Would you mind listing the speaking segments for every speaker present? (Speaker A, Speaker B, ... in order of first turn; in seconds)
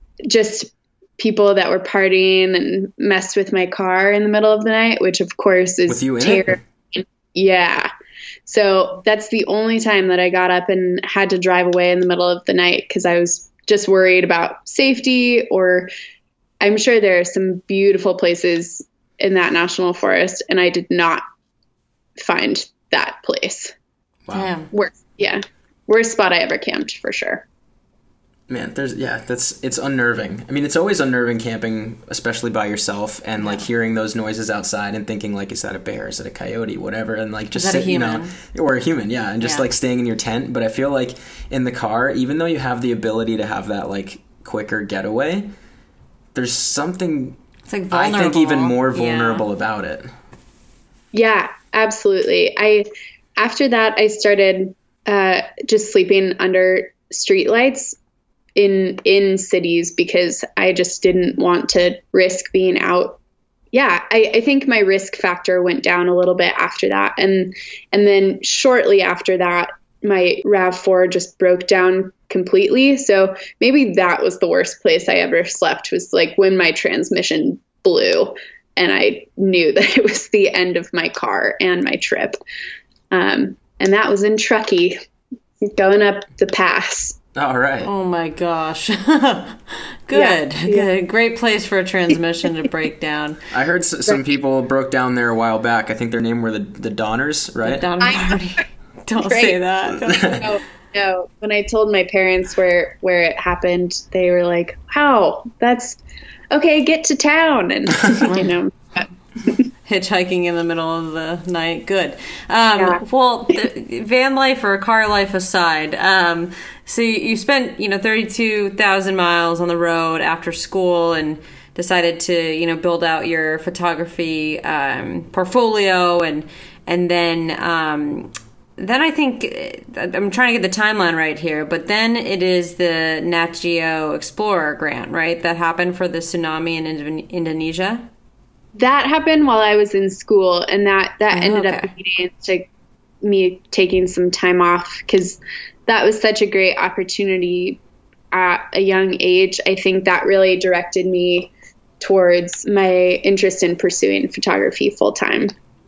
Speaker A: 0.3-7.9, 8.5-15.9, 16.6-21.2, 22.2-23.7, 24.7-27.4, 51.1-58.0, 58.6-63.2, 63.7-82.4, 83.1-85.0, 85.6-87.2, 90.1-90.9, 98.0-98.4, 99.3-99.6, 100.1-106.0, 106.5-109.1, 138.8-142.7, 143.2-147.8, 148.3-155.5
Speaker B: 5.9-6.6, 24.3-24.5, 28.5-45.5, 46.4-47.4, 47.9-50.1, 87.3-87.9, 93.5-97.9
Speaker C: 24.3-24.7, 37.5-38.3, 47.7-49.5, 87.8-93.4, 97.6-100.5, 109.8-138.1, 141.3-141.9